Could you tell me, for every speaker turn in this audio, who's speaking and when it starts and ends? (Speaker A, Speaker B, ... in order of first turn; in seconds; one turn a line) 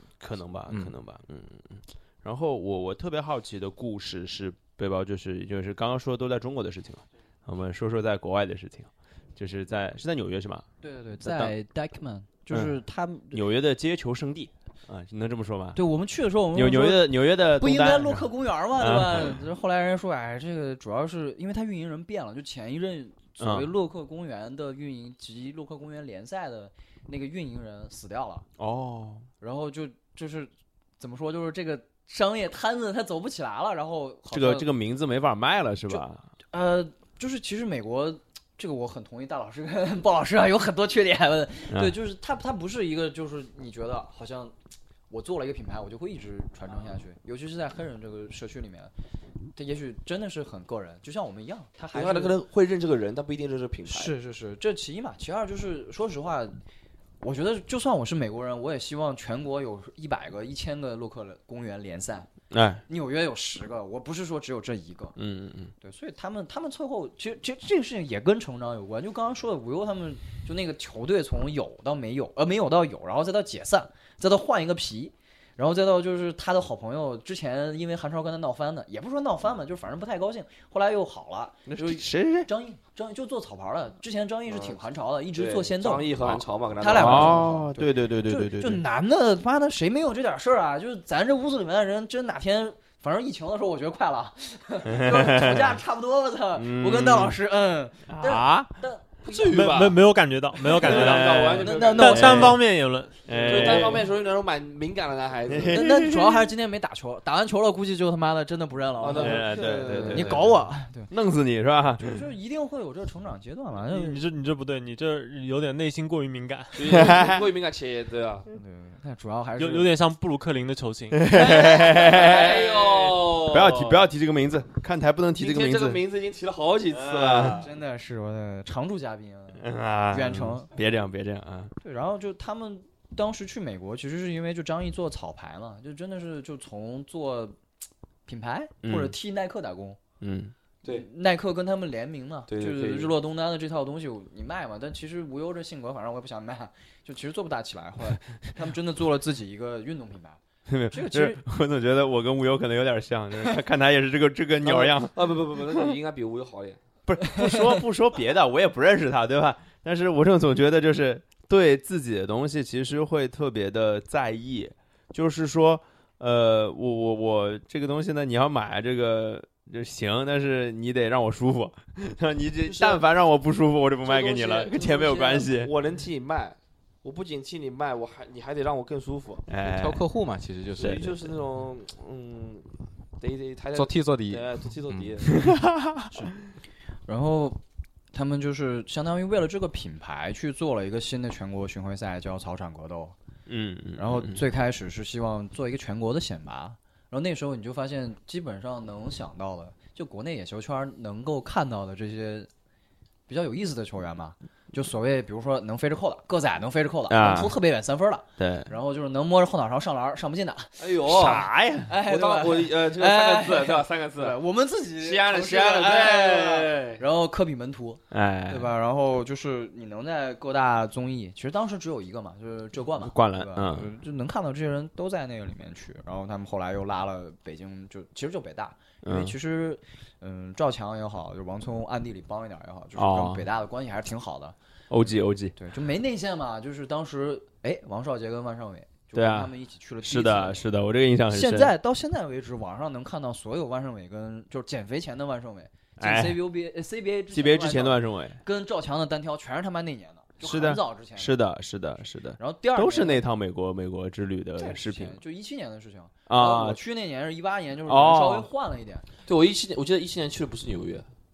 Speaker A: 0.2-10.7
Speaker B: 0.7-0.9
Speaker C: 10.8-13.4
Speaker A: 11.2-11.5
Speaker A: 13.3-15.8
Speaker C: 15.8-28.5
Speaker A: 16.5-19.4
Speaker A: 23.4-23.7
Speaker A: 28.6-29.3
Speaker C: 29.4-34.7
Speaker A: 34.3-36.3
Speaker C: 35.9-44.5
Speaker C: 45.1-48.9
Speaker C: 49.5-52.4
Speaker D: 51.9-54.1
Speaker C: 53.9-56.6
Speaker C: 57.2-62.3
Speaker A: 62.5-62.8
Speaker C: 62.9-65.2
Speaker A: 65.2-65.7
Speaker C: 65.8-86.2
Speaker A: 81.7-82.5
Speaker D: 84.5-84.8
Speaker D: 85.3-87.5
Speaker C: 86.8-99.6
Speaker A: 86.9-88.8
Speaker A: 94.9-95.8
Speaker A: 96.6-97.4
Speaker A: 98.1-98.7
Speaker D: 99.3-100.0
Speaker E: 99.5-104.0
Speaker D: 100.6-102.5
Speaker A: 100.8-102.6
Speaker C: 100.9-102.6
Speaker A: 103.3-104.1
Speaker D: 103.3-105.8
Speaker A: 105.5-106.4
Speaker C: 105.7-111.1
Speaker D: 109.0-110.5
Speaker A: 109.1-110.5
Speaker A: 111.1-112.2
Speaker C: 112.0-114.2
Speaker E: 113.8-117.0
Speaker D: 116.8-118.5
Speaker A: 116.9-117.5
Speaker C: 118.5-119.9
Speaker E: 119.6-121.3
Speaker A: 121.1-126.0
Speaker D: 121.3-124.1
Speaker D: 125.4-127.7
Speaker A: 126.9-127.6
Speaker C: 127.6-130.7
Speaker A: 129.6-131.7
Speaker C: 131.8-137.6
Speaker C: 138.3-140.0
Speaker A: 138.8-139.1
Speaker A: 140.2-140.5
Speaker C: 140.8-150.4
Speaker D: 142.5-143.1
Speaker A: 150.7-155.9
Speaker C: 150.9-151.4
Speaker D: 154.6-156.8
Speaker A: 157.1-175.7
Speaker C: 157.3-157.8
Speaker D: 172.7-173.0
Speaker D: 174.1-179.5
Speaker A: 179.5-180.0
Speaker B: 179.6-181.3
Speaker D: 180.8-185.5
Speaker A: 180.8-181.1
Speaker B: 183.7-185.2
Speaker A: 185.4-186.1
Speaker C: 187.1-187.6
Speaker C: 188.1-193.2
Speaker A: 193.5-194.4
Speaker C: 194.0-202.5
Speaker C: 203.3-210.8
Speaker A: 207.1-207.5
Speaker A: 208.4-208.7
Speaker D: 210.8-211.5
Speaker A: 211.1-211.9
Speaker C: 211.9-240.7
Speaker D: 212.0-214.4
Speaker D: 215.0-217.0
Speaker A: 218.1-218.7
Speaker A: 223.0-223.9
Speaker A: 229.0-229.3
Speaker A: 233.0-233.5
Speaker A: 234.9-235.6
Speaker A: 239.2-239.5
Speaker A: 240.0-241.7
Speaker C: 241.3-251.4
Speaker A: 246.0-246.4
Speaker A: 247.3-248.4
Speaker A: 250.4-255.2
Speaker C: 252.4-253.2
Speaker C: 254.6-259.1
Speaker A: 256.3-256.8
Speaker A: 257.9-258.5
Speaker D: 259.3-261.1